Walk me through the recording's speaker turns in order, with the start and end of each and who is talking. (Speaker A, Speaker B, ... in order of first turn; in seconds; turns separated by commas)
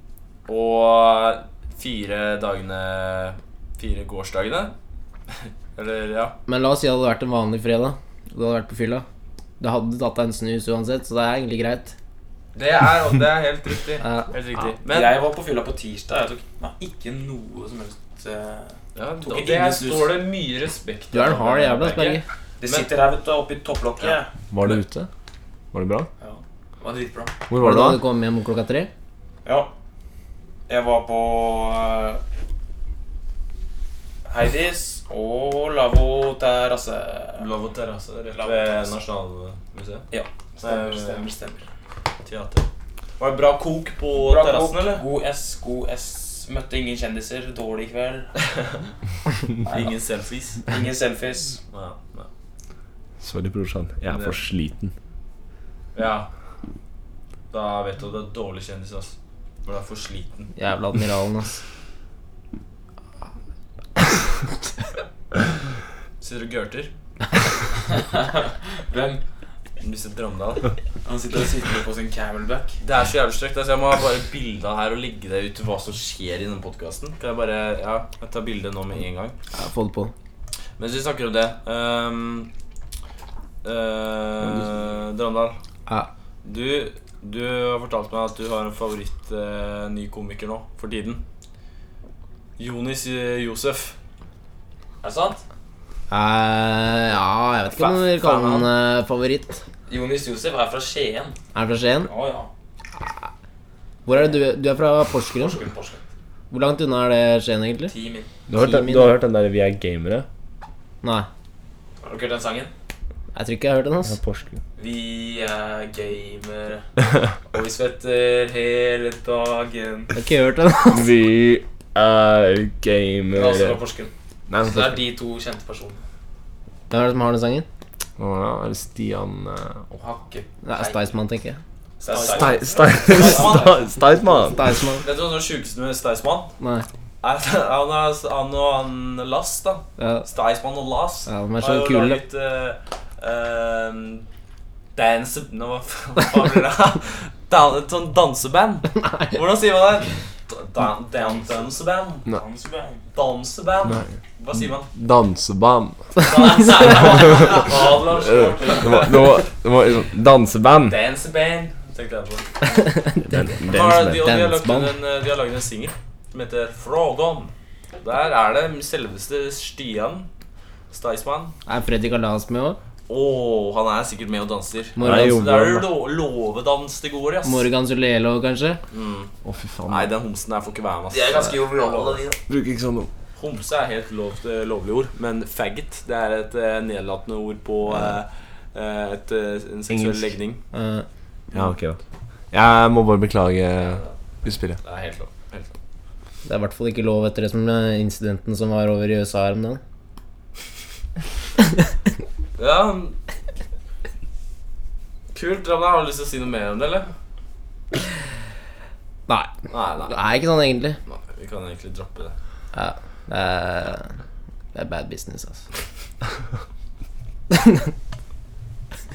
Speaker A: 0.5-4.7, Speaker A: 5.8-6.4, Speaker B: 6.5-9.1, Speaker B: 9.6-11.9, Speaker A: 12.6-15.2, Speaker B: 14.0-14.3, Speaker C: 14.8-20.2, Speaker A: 18.9-22.9, Speaker B: 21.1-22.2, Speaker C: 22.6-24.3, Speaker D: 24.5-25.1, Speaker D: 25.7-26.1, Speaker C: 26.2-27.4, Speaker D: 27.5-28.0, Speaker B: 27.6-28.9, Speaker C: 29.4-29.7, Speaker C: 30.7-32.2, Speaker C: 34.3-37.5, Speaker A: 37.4-40.1, Speaker C: 38.3-38.9, Speaker C: 40.1-41.6, Speaker A: 40.6-41.3, Speaker A: 42.2-42.7, Speaker A: 43.2-45.0, Speaker C: 44.1-48.3, Speaker A: 48.5-48.7, Speaker C: 49.6-50.0, Speaker A: 49.7-50.6, Speaker C: 50.7-51.6, Speaker A: 51.7-52.3, Speaker D: 53.2-54.9, Speaker A: 54.1-54.4, Speaker A: 55.9-56.3, Speaker A: 57.5-60.5, Speaker B: 60.6-61.6, Speaker A: 66.2-66.9, Speaker C: 67.9-69.2, Speaker A: 69.8-70.7, Speaker C: 71.0-72.8, Speaker A: 72.8-79.3, Speaker B: 79.5-80.1, Speaker A: 80.8-82.5, Speaker A: 83.6-85.6, Speaker A: 86.4-91.2, Speaker A: 92.6-94.0, Speaker C: 95.0-95.4, Speaker B: 96.1-99.6, Speaker C: 97.8-98.2, Speaker A: 98.2-98.7, Speaker C: 99.9-101.4, Speaker B: 101.5-102.1, Speaker C: 102.0-102.5, Speaker B: 104.1-105.6, Speaker C: 105.3-106.0, Speaker B: 106.5-107.9, Speaker C: 107.9-108.3, Speaker D: 108.5-110.3, Speaker B: 108.6-109.1, Speaker B: 111.0-111.3, Speaker C: 112.0-112.7, Speaker B: 113.3-114.2, Speaker D: 114.1-114.6, Speaker C: 114.8-116.8, Speaker C: 117.5-120.1, Speaker B: 120.1-121.1, Speaker D: 120.9-123.8, Speaker C: 123.3-126.0, Speaker D: 124.5-125.0, Speaker B: 126.9-127.7, Speaker D: 128.2-129.9, Speaker C: 129.9-131.1, Speaker B: 130.6-131.6, Speaker C: 132.0-133.8, Speaker A: 132.1-133.8, Speaker D: 132.3-134.6, Speaker B: 134.5-135.1, Speaker A: 135.0-136.5, Speaker B: 136.6-136.9, Speaker A: 137.2-144.3, Speaker B: 140.0-140.3, Speaker B: 141.3-142.2, Speaker A: 144.9-152.3, Speaker C: 151.2-151.7, Speaker C: 152.3-153.0, Speaker A: 153.1-154.9, Speaker D: 153.8-154.1, Speaker D: 154.9-156.1, Speaker A: 156.2-159.2, Speaker C: 156.3-159.2, Speaker D: 158.1-161.0, Speaker A: 160.9-162.8, Speaker B: 162.7-163.5, Speaker D: 163.2-164.3, Speaker A: 163.7-170.3, Speaker B: 164.2-164.9, Speaker A: 170.9-171.5, Speaker B: 171.7-172.8, Speaker A: 173.1-177.7, Speaker B: 175.0-175.5, Speaker D: 175.0-175.9, Speaker B: 177.4-178.8, Speaker A: 178.9-179.3, Speaker D: 179.4-180.1, Speaker A: 179.9-182.2, Speaker C: 181.1-182.4, Speaker D: 182.5-183.1, Speaker A: 183.4-190.6, Speaker D: 189.9-190.3, Speaker B: 190.7-191.1, Speaker D: 191.5-192.0, Speaker D: 192.5-194.8, Speaker A: 193.8-194.1, Speaker A: 194.7-195.7, Speaker B: 196.4-199.8, Speaker A: 202.6-203.2, Speaker A: 205.3-207.1, Speaker B: 209.3-211.0, Speaker A: 209.7-210.2, Speaker A: 211.1-212.3, Speaker B: 212.7-214.1, Speaker B: 214.7-215.6, Speaker B: 217.5-217.9